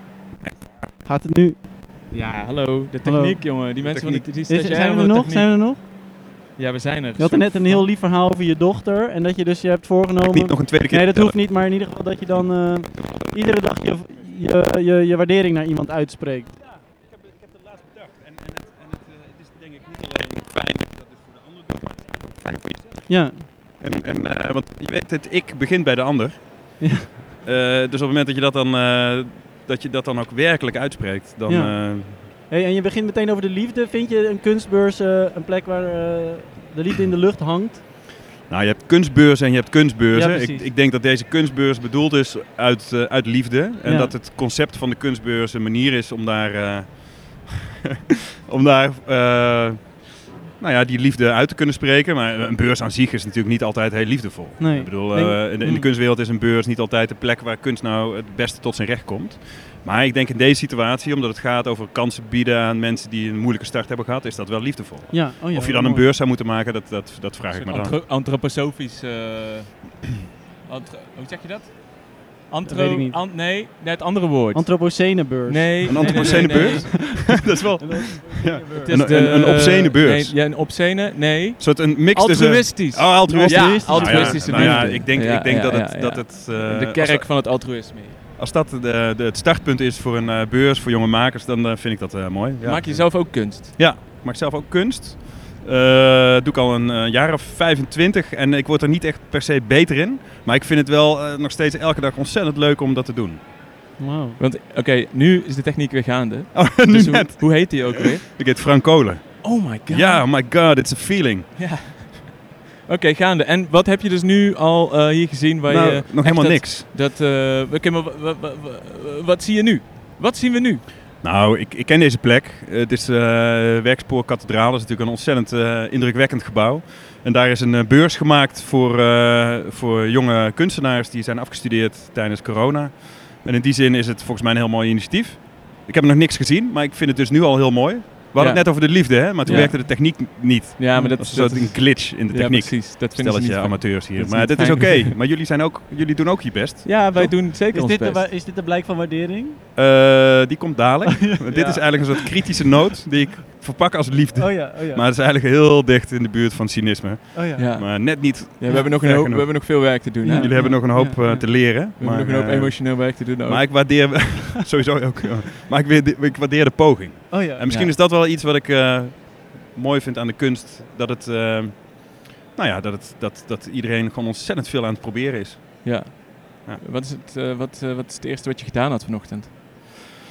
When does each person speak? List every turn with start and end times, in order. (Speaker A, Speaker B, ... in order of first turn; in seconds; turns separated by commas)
Speaker A: 1.1-1.6, Speaker B: 2.1-5.6, Speaker A: 3.0-3.7, Speaker C: 3.8-4.3, Speaker A: 4.5-5.8, Speaker B: 6.5-7.8, Speaker A: 7.2-16.6, Speaker C: 10.3-11.4, Speaker C: 17.1-26.9, Speaker A: 23.1-23.5, Speaker A: 26.8-27.1, Speaker C: 27.4-32.3, Speaker A: 31.4-37.8, Speaker C: 38.5-68.0, Speaker A: 40.1-40.7, Speaker A: 43.8-44.2, Speaker A: 54.6-55.9, Speaker A: 65.1-66.1, Speaker B: 67.5-70.0, Speaker B: 70.7-76.9, Speaker A: 72.7-73.3, Speaker A: 74.5-79.1, Speaker C: 75.8-80.4, Speaker B: 78.7-88.2, Speaker C: 81.6-87.8, Speaker A: 83.3-85.0, Speaker C: 88.4-103.4, Speaker B: 92.6-93.9, Speaker A: 104.0-104.4, Speaker B: 104.4-108.3, Speaker C: 106.5-111.6, Speaker B: 109.4-110.3, Speaker B: 111.6-120.8, Speaker C: 115.7-116.9, Speaker C: 121.2-147.3, Speaker B: 138.3-145.2, Speaker A: 139.4-139.7, Speaker B: 146.8-148.3, Speaker A: 147.1-149.6, Speaker C: 149.8-176.0, Speaker A: 151.5-152.1, Speaker A: 154.3-155.0, Speaker A: 157.3-157.7, Speaker B: 157.6-161.1, Speaker A: 160.2-161.6, Speaker B: 161.8-164.2, Speaker A: 167.3-167.6, Speaker B: 167.7-167.9, Speaker B: 175.8-179.5